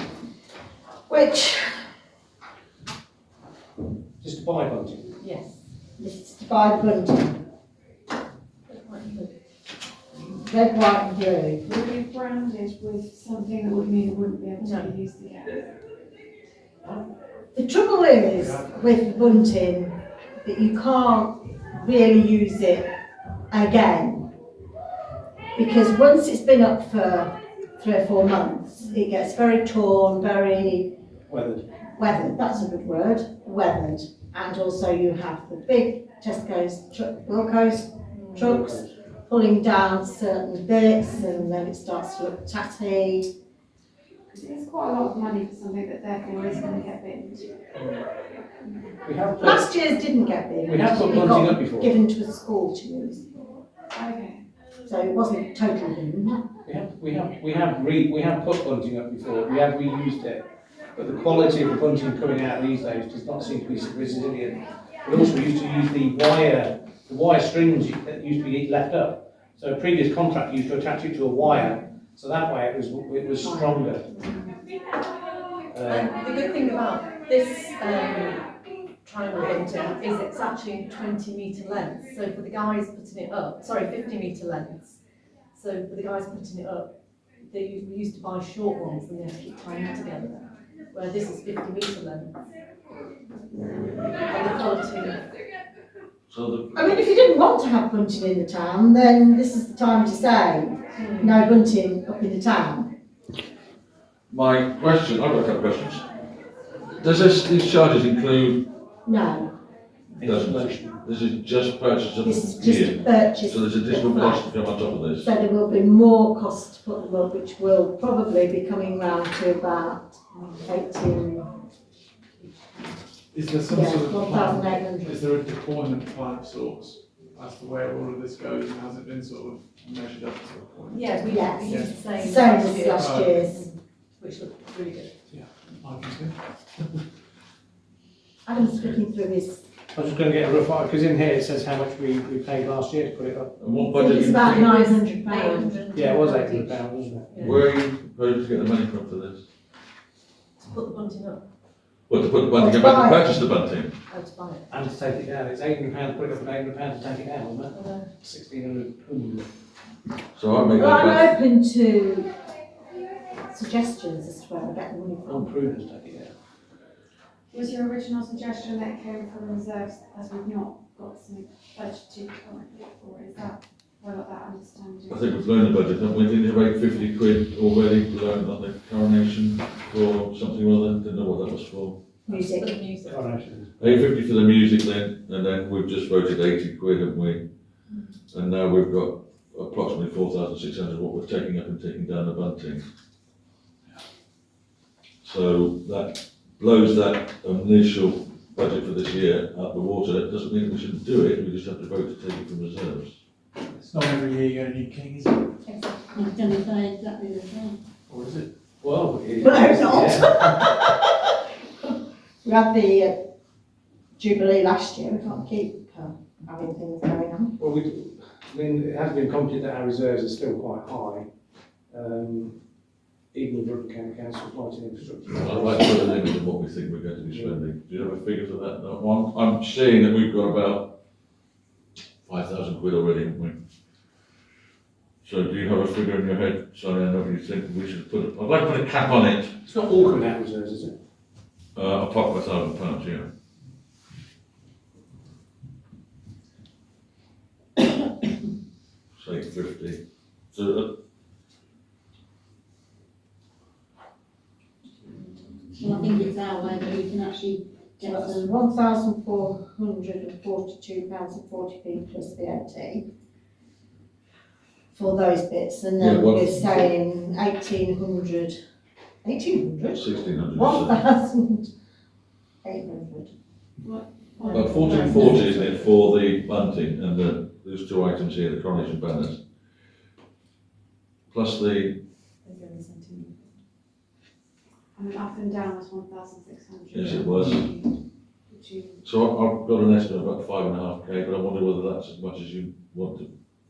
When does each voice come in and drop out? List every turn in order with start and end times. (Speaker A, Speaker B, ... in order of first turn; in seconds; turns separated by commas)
Speaker A: 1.1-1.7, Speaker B: 4.2-5.1, Speaker C: 5.2-5.6, Speaker A: 6.0-7.3, Speaker C: 8.7-9.3, Speaker A: 10.3-11.6, Speaker D: 11.6-15.7, Speaker C: 14.6-14.9, Speaker A: 17.5-22.9, Speaker A: 23.5-24.3, Speaker A: 25.6-30.9, Speaker B: 31.3-31.6, Speaker A: 31.9-43.3, Speaker C: 38.1-38.5, Speaker B: 38.4-38.9, Speaker D: 44.3-47.6, Speaker E: 47.8-48.0, Speaker B: 49.0-49.7, Speaker A: 49.4-53.2, Speaker B: 50.6-51.9, Speaker D: 53.9-54.4, Speaker A: 54.9-56.4, Speaker B: 56.6-60.4, Speaker B: 60.9-74.0, Speaker C: 74.2-74.5, Speaker B: 75.7-76.2, Speaker C: 75.8-78.4, Speaker C: 79.0-85.0, Speaker C: 85.5-86.9, Speaker C: 87.5-92.3, Speaker C: 94.3-95.2, Speaker F: 96.3-97.2, Speaker A: 96.7-102.9, Speaker C: 101.0-101.4, Speaker F: 104.3-106.0, Speaker F: 107.0-108.7, Speaker A: 109.0-109.5, Speaker B: 110.1-110.9, Speaker F: 110.2-115.3, Speaker A: 112.2-114.5, Speaker A: 115.2-121.5, Speaker E: 123.3-132.0, Speaker A: 123.7-125.2, Speaker C: 130.9-135.1, Speaker A: 131.2-133.6, Speaker E: 132.9-133.3, Speaker E: 135.3-136.3, Speaker A: 138.4-139.6, Speaker F: 138.6-139.0, Speaker B: 139.9-143.6, Speaker F: 143.6-144.8, Speaker A: 143.8-145.8, Speaker C: 144.5-147.6, Speaker B: 145.9-147.5, Speaker F: 147.4-149.4, Speaker C: 150.6-151.4, Speaker F: 152.1-153.9, Speaker A: 152.5-153.3, Speaker C: 154.1-154.7, Speaker B: 154.7-159.5, Speaker C: 157.7-158.1, Speaker F: 160.3-161.3, Speaker A: 160.8-162.3, Speaker A: 163.5-165.5, Speaker B: 165.2-166.3, Speaker D: 167.5-175.4, Speaker F: 175.1-182.0, Speaker C: 182.2-183.3, Speaker A: 182.3-182.8, Speaker B: 183.1-183.8, Speaker F: 183.8-187.4, Speaker F: 188.3-192.8, Speaker F: 195.2-203.2, Speaker E: 203.8-205.4, Speaker G: 206.1-207.8, Speaker E: 208.1-208.5, Speaker B: 208.8-210.6, Speaker A: 209.4-211.0, Speaker A: 212.4-213.2, Speaker A: 214.2-217.6, Speaker B: 217.6-221.3, Speaker B: 221.9-222.6, Speaker B: 223.3-226.1, Speaker F: 225.4-230.9, Speaker B: 227.3-227.6, Speaker F: 232.2-233.6, Speaker F: 235.2-239.6, Speaker B: 239.6-240.9, Speaker F: 241.7-243.3, Speaker F: 249.2-250.0, Speaker F: 250.5-250.9, Speaker G: 255.8-258.5, Speaker A: 258.0-263.0, Speaker A: 264.9-268.6, Speaker F: 266.0-266.9, Speaker A: 269.2-271.7, Speaker F: 269.9-271.0, Speaker A: 272.6-273.3, Speaker D: 273.8-275.8, Speaker C: 274.4-275.4, Speaker F: 274.5-279.4, Speaker F: 281.3-282.0, Speaker C: 282.4-283.5, Speaker D: 284.9-287.9, Speaker F: 286.9-287.7, Speaker D: 288.5-289.0, Speaker F: 289.0-293.3